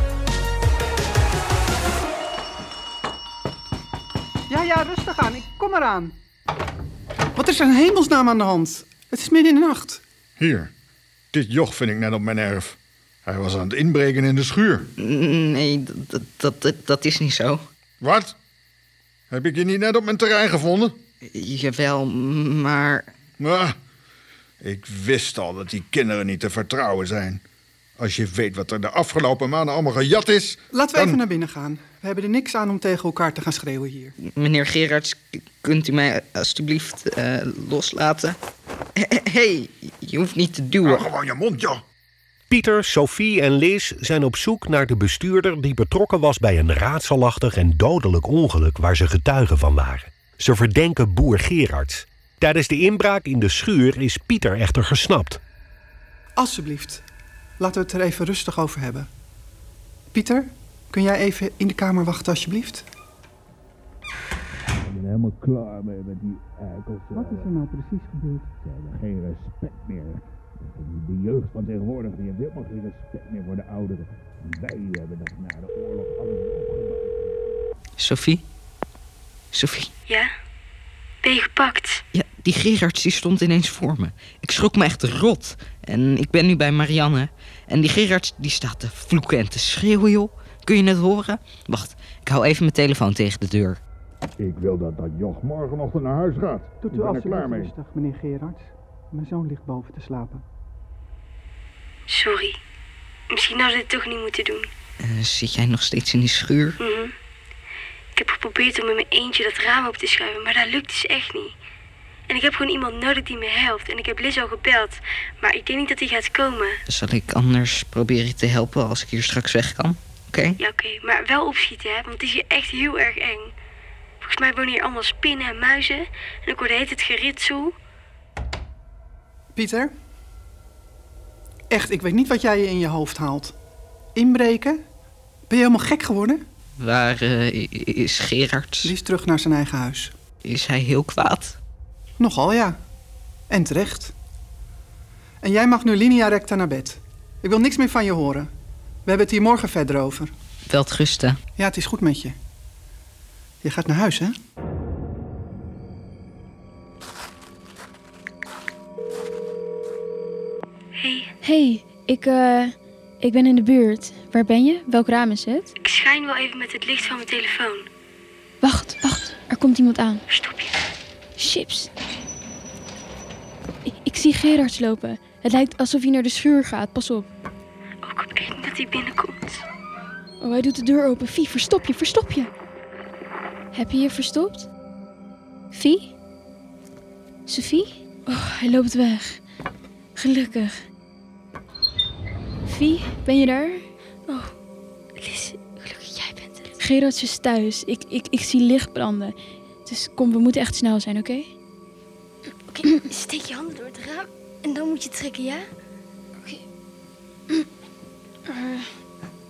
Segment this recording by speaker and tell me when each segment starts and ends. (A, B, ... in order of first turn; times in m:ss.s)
0:04.5-0:06.2 A
0:07.3-0:10.0 A
0:10.4-0:10.7 B
0:11.3-0:14.9 B
0:15.0-0:17.6 C
0:18.0-0:18.3 B
0:19.3-0:21.0 B
0:21.2-0:23.1 C
0:23.4-0:23.8 B
0:24.6-0:27.4 B
0:28.0-0:31.2 B
0:30.7-0:34.1 A
0:34.4-0:38.4 C
0:39.0-0:41.0 C
0:40.8-0:41.8 B
0:42.5-0:55.4 D
0:56.4-0:57.0 A
0:57.6-0:59.1 A
1:00.1-1:02.8 A
1:04.8-1:07.5 E
1:07.1-1:08.5 A
1:08.6-1:17.4 E
1:18.0-1:18.4 C
1:19.5-1:19.9 C
1:21.2-1:22.0 F
1:22.1-1:33.8 C
1:34.4-1:37.5 B
1:34.6-1:35.7 E
1:36.8-1:40.4 A
1:37.1-1:37.7 E
1:42.1-1:42.6 F
1:43.3-1:44.7 F
1:45.0-1:46.8 C
1:46.8-1:47.1 F
1:48.2-1:51.5 F
1:52.3-1:56.8 F
1:56.9-2:00.6 C
2:00.6-2:03.5 F
2:04.2-2:07.7 F
2:09.5-2:09.9 A
2:11.7-2:13.5 A
2:14.1-2:14.8 A
2:15.5-2:16.4 A
2:16.8-2:18.9 C
2:18.8-2:20.1 A
2:20.4-2:21.6 C
2:22.2-2:22.8 A
2:23.5-2:24.1 A
2:25.4-2:28.5 A
2:29.0-2:30.3 A
2:30.7-2:31.4 C
2:31.6-2:32.3 A
2:33.6-2:34.3 A
2:41.0-2:41.3 F
2:41.4-2:45.7 G
2:45.8-2:47.8 F
2:48.6-2:50.2 G
2:50.3-2:50.7 F
2:51.4-2:51.9 G
2:53.8-2:57.3 G
2:58.0-2:59.6 F
3:00.4-3:02.5 G
3:03.7-3:04.7 G
3:05.7-3:06.1 G
3:07.5-3:09.4 G
3:10.2-3:10.8 G
3:12.6-3:13.8 G
3:15.2-3:16.7 F
3:16.8-3:21.5 G
3:22.7-3:25.6 F
3:28.4-3:28.9 G